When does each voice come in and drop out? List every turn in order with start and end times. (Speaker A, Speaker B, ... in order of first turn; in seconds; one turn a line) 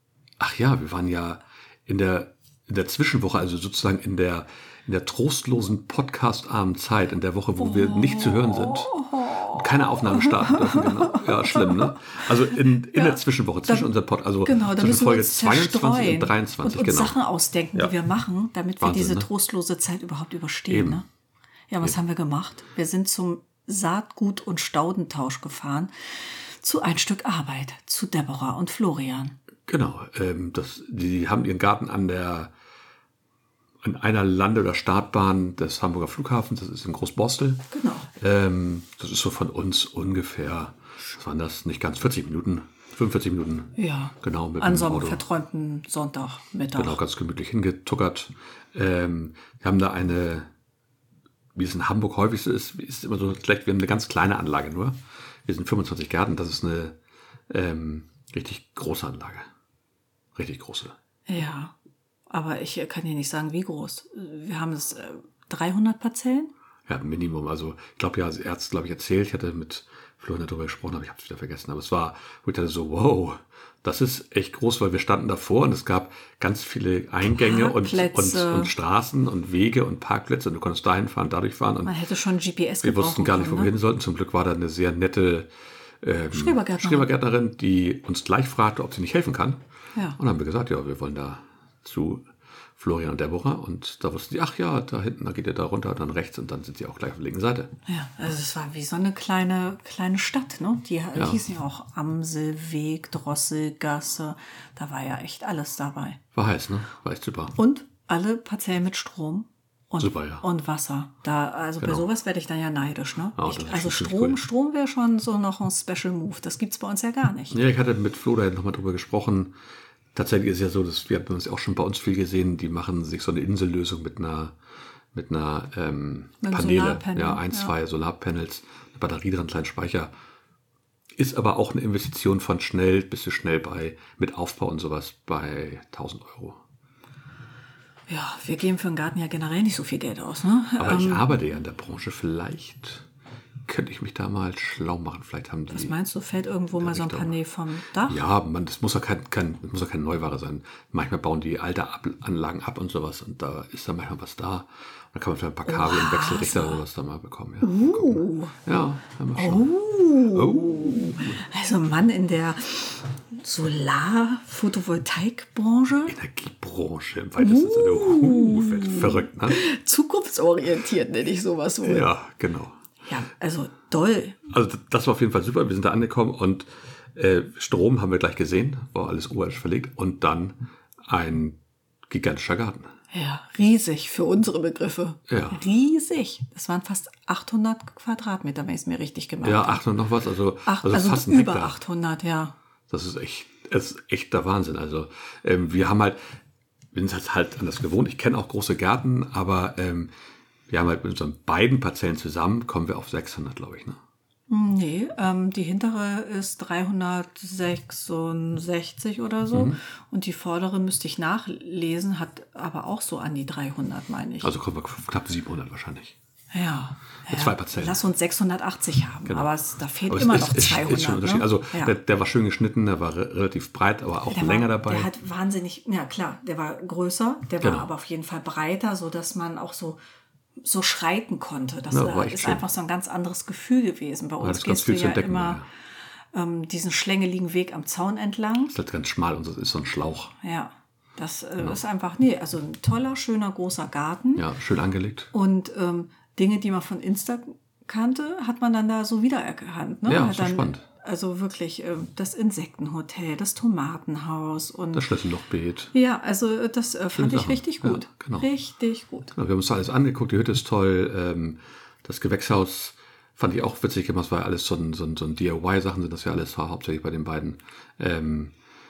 Speaker A: 0.4-8.9
Speaker B: 7.6-13.9
Speaker A: 9.4-17.2
Speaker B: 14.4-21.0
Speaker A: 18.8-19.3
Speaker A: 20.7-21.0
Speaker B: 21.7-29.4
Speaker A: 29.7-32.5
Speaker A: 33.8-45.2
Speaker B: 37.7-38.1
Speaker B: 43.8-47.0
Speaker A: 46.8-50.5
Speaker A: 51.5-57.0
Speaker A: 57.5-59.5
Speaker A: 60.3-60.9
Speaker B: 61.3-61.7
Speaker B: 62.3-66.5
Speaker A: 66.9-81.9
Speaker B: 77.2-78.7
Speaker B: 81.8-83.7
Speaker A: 82.8-85.5
Speaker A: 86.0-89.6
Speaker B: 86.3-87.1
Speaker A: 90.2-92.2
Speaker A: 92.8-97.7
Speaker B: 97.8-106.2
Speaker A: 106.3-107.5
Speaker B: 107.5-117.6
Speaker A: 110.0-110.4
Speaker A: 111.8-112.0
Speaker A: 113.3-114.4
Speaker A: 117.5-119.5
Speaker A: 120.1-124.5
Speaker A: 125.1-130.1
Speaker B: 126.4-127.7
Speaker A: 131.2-136.6
Speaker B: 138.1-141.3
Speaker A: 140.8-143.1
Speaker A: 143.7-145.9
Speaker B: 145.7-148.2
Speaker A: 146.8-147.3
Speaker A: 148.1-161.4
Speaker B: 155.7-156.8
Speaker B: 157.6-158.5
Speaker B: 159.3-166.1
Speaker A: 166.1-169.6
Speaker B: 167.4-172.1
Speaker A: 171.8-172.8
Speaker B: 173.1-174.4
Speaker A: 174.5-182.9
Speaker B: 183.1-189.8
Speaker A: 185.3-185.6
Speaker A: 189.4-191.8
Speaker B: 190.7-192.5
Speaker A: 192.9-196.2
Speaker A: 196.9-200.1
Speaker A: 200.7-204.0
Speaker B: 204.5-214.5
Speaker A: 209.5-209.8
Speaker A: 214.4-216.1
Speaker B: 216.5-221.9
Speaker A: 217.3-218.0
Speaker A: 219.2-219.5
Speaker A: 220.1-225.1
Speaker B: 224.3-230.0
Speaker A: 227.6-227.9
Speaker B: 230.6-235.6
Speaker A: 231.9-232.6
Speaker A: 234.4-235.6
Speaker B: 236.3-238.7
Speaker A: 238.7-240.3
Speaker B: 240.4-244.5
Speaker A: 244.3-245.3
Speaker B: 245.3-255.1
Speaker A: 250.1-250.8
Speaker A: 254.9-255.9
Speaker B: 255.9-259.3
Speaker A: 257.1-258.5
Speaker A: 259.3-268.5